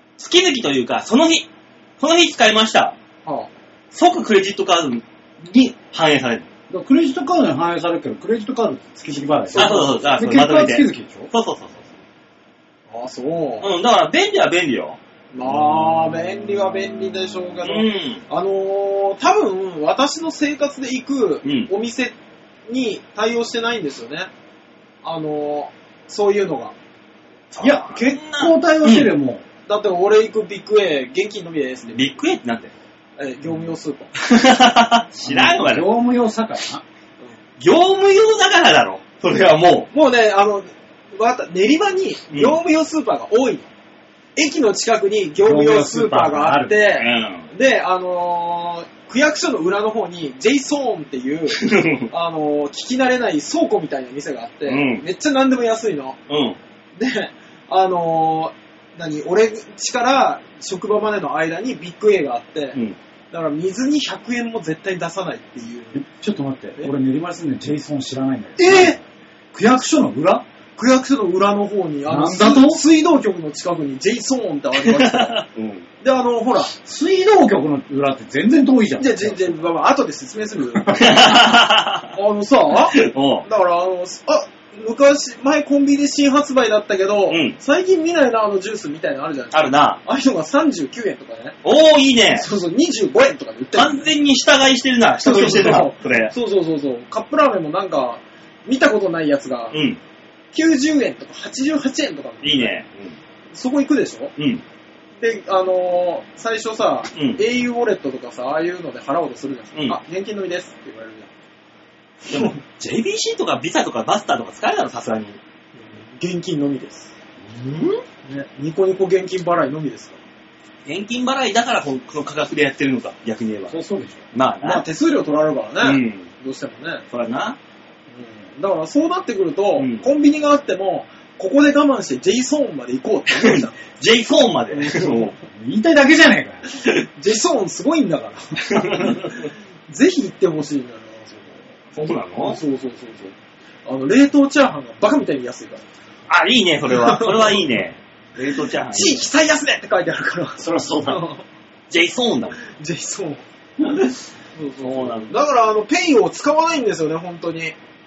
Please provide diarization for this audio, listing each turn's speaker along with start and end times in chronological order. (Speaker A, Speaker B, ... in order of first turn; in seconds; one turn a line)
Speaker A: 0.2-1.5
Speaker A: 2.0-2.9
Speaker A: 3.9-6.5
Speaker B: 6.7-11.3
Speaker C: 9.5-10.2
Speaker A: 9.6-11.9
Speaker C: 12.9-13.7
Speaker A: 13.6-15.0
Speaker C: 15.3-22.1
Speaker A: 17.6-18.2
Speaker A: 21.4-21.7
Speaker C: 22.7-24.3
Speaker C: 25.0-26.7
Speaker A: 27.5-29.1
Speaker B: 27.6-29.4
Speaker C: 29.7-32.2
Speaker A: 31.9-32.7
Speaker C: 33.2-34.1
Speaker A: 34.2-35.8
Speaker B: 35.2-36.8
Speaker A: 37.6-39.9
Speaker C: 39.9-43.7
Speaker A: 42.3-42.6
Speaker C: 44.4-56.2
Speaker B: 45.4-46.9
Speaker A: 46.9-47.5
Speaker A: 51.5-52.1
Speaker A: 54.7-55.0
Speaker A: 56.3-56.6
Speaker C: 57.0-62.8
Speaker C: 63.3-66.0
Speaker B: 65.9-69.0
Speaker C: 68.6-69.0
Speaker B: 69.5-70.4
Speaker C: 70.8-75.5
Speaker B: 72.1-72.8
Speaker A: 74.8-75.8
Speaker C: 76.0-76.7
Speaker B: 76.8-79.6
Speaker C: 79.0-81.5
Speaker A: 80.9-82.1
Speaker C: 82.1-91.6
Speaker A: 82.9-83.5
Speaker A: 87.3-87.6
Speaker A: 89.5-90.0
Speaker A: 91.6-92.5
Speaker C: 92.3-94.1
Speaker A: 93.7-96.3
Speaker C: 95.2-99.8
Speaker A: 99.7-100.0
Speaker C: 100.5-102.7
Speaker A: 102.4-103.2
Speaker C: 103.5-104.3
Speaker A: 104.4-104.6
Speaker C: 105.2-111.3
Speaker A: 107.2-107.4
Speaker A: 112.3-115.4
Speaker C: 115.7-117.1
Speaker A: 117.5-118.0
Speaker C: 118.2-120.2
Speaker A: 120.8-123.8
Speaker B: 123.7-124.2
Speaker A: 124.3-124.8
Speaker C: 124.6-127.0
Speaker A: 125.8-126.3
Speaker A: 127.1-127.6
Speaker C: 128.1-133.8
Speaker A: 129.8-130.1
Speaker A: 133.3-135.3
Speaker C: 134.7-135.4
Speaker B: 135.5-136.6
Speaker C: 136.8-143.3
Speaker A: 138.7-139.5
Speaker A: 142.0-142.6
Speaker C: 143.8-145.8
Speaker A: 146.3-149.2
Speaker C: 146.9-147.7
Speaker C: 148.9-151.4
Speaker B: 150.6-151.2
Speaker A: 151.9-152.6
Speaker C: 152.6-153.4
Speaker C: 154.5-157.7
Speaker A: 154.8-155.4